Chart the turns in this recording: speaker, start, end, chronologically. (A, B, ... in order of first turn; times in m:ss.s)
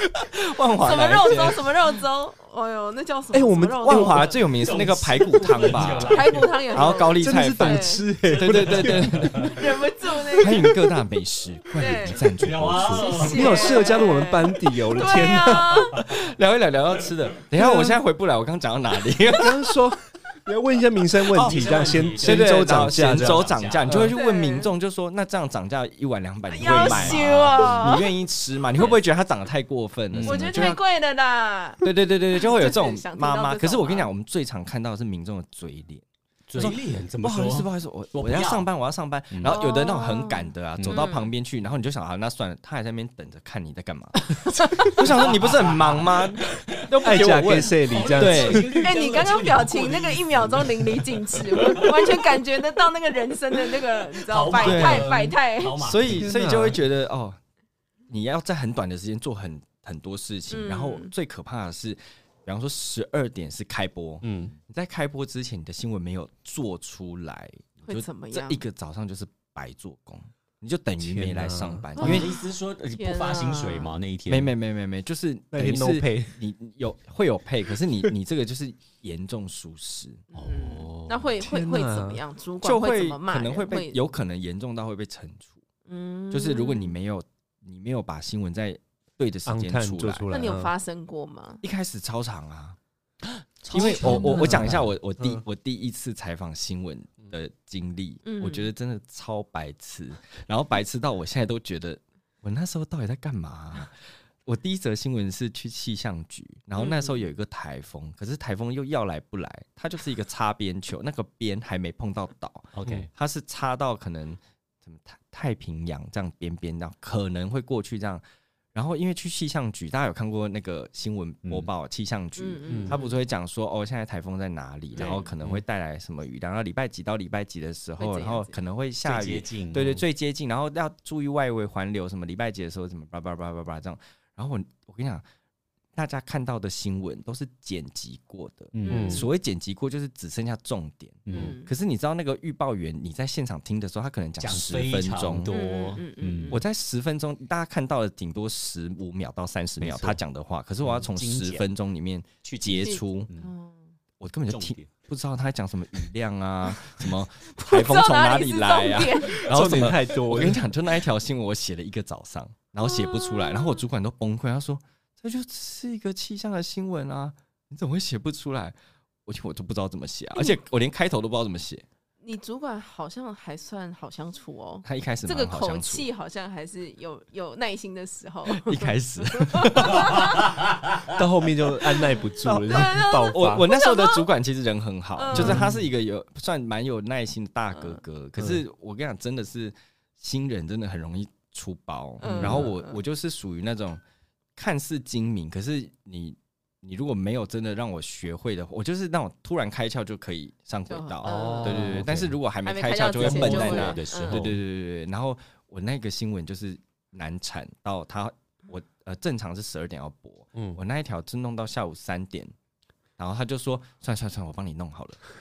0:00.2-0:01.6 A
0:00.8-0:04.4 B
0:03.3-0:04.3 C
0:03.8-0:09.6 A
0:04.5-0:06.6 D
0:06.0-0:08.0 B
0:07.2-0:09.5 C
0:08.2-0:09.6 D
0:09.5-0:10.7 B
0:10.4-0:13.3 A
0:11.8-0:12.2 B
0:12.2-0:14.0 D
0:12.7-0:16.0 B
0:13.2-0:15.8 C
0:16.0-0:19.7 A
0:17.5-0:18.0 C
0:19.3-0:24.1 C
0:21.3-0:21.6 A
0:21.3-0:24.1 D
0:22.1-0:30.8 A
0:24.1-0:24.7 B
0:26.5-0:28.0 B
0:26.6-0:28.0 D
0:30.1-0:30.7 D
0:30.2-0:31.8 B
0:31.8-0:36.0 A
0:32.4-0:34.1 B
0:36.5-0:38.7 D
0:36.6-0:48.6 A
0:39.3-0:39.6 D
0:39.4-0:41.3 B
0:40.8-0:41.1 D
0:44.5-0:44.9 B
0:45.2-0:47.2 D
0:47.0-0:48.7 C
0:47.8-0:52.2 D
0:48.8-0:55.8 B
0:54.2-0:56.3 D
0:54.6-0:55.2 A
0:55.8-0:57.4 A
0:56.1-0:56.8 C
0:58.1-1:12.3 A
1:00.5-1:01.1 B
1:04.2-1:04.5 C
1:07.8-1:08.6 B
1:11.0-1:11.9 C
1:12.0-1:12.4 B
1:12.0-1:14.5 D
1:13.0-1:13.9 B
1:14.3-1:20.2 A
1:15.5-1:16.4 C
1:20.3-1:24.0 B
1:20.3-1:21.3 D
1:21.4-1:22.2 C
1:22.6-1:25.6 A
1:25.8-1:27.0 B
1:26.3-1:30.3 A
1:29.4-1:30.7 C
1:30.3-1:31.6 B
1:31.6-1:32.8 A
1:33.2-1:34.9 D
1:33.7-1:58.2 A
1:33.9-1:35.4 C
1:38.2-1:38.7 B
1:46.8-1:47.3 B
1:52.7-1:53.1 D
1:58.7-2:15.2 A
2:02.4-2:03.2 B
2:02.7-2:02.9 C
2:04.9-2:05.3 B
2:05.0-2:05.2 D
2:08.0-2:08.5 B
2:09.0-2:10.0 D
2:15.9-2:25.5 A
2:18.7-2:19.2 D
2:18.8-2:19.3 B
2:18.9-2:19.2 C
2:21.2-2:21.6 D
2:21.3-2:21.7 B
2:24.4-2:26.6 D
2:25.5-2:26.6 B
2:26.5-2:33.3 A
2:29.8-2:30.2 D
2:30.8-2:31.6 D
2:32.4-2:33.5 D
2:32.8-2:33.9 B
2:34.2-2:51.8 A
2:34.5-2:34.9 D
2:37.5-2:39.5 B
2:39.5-2:40.6 C
2:42.8-2:43.8 B
2:52.2-3:00.5 B
2:54.8-2:56.1 A
2:58.5-3:00.4 A
3:01.1-3:03.7 C
3:02.4-3:14.0 A
3:02.6-3:04.3 B
3:05.2-3:05.6 B
3:05.3-3:05.8 C
3:05.4-3:05.6 D
3:07.7-3:08.0 B
3:12.2-3:13.0 B
3:12.4-3:12.6 D
3:12.4-3:12.6 C
3:14.6-3:32.5 A
3:20.9-3:22.0 B
3:21.2-3:22.3 D
3:22.6-3:24.5 B
3:23.1-3:24.6 D
3:33.2-3:35.2 A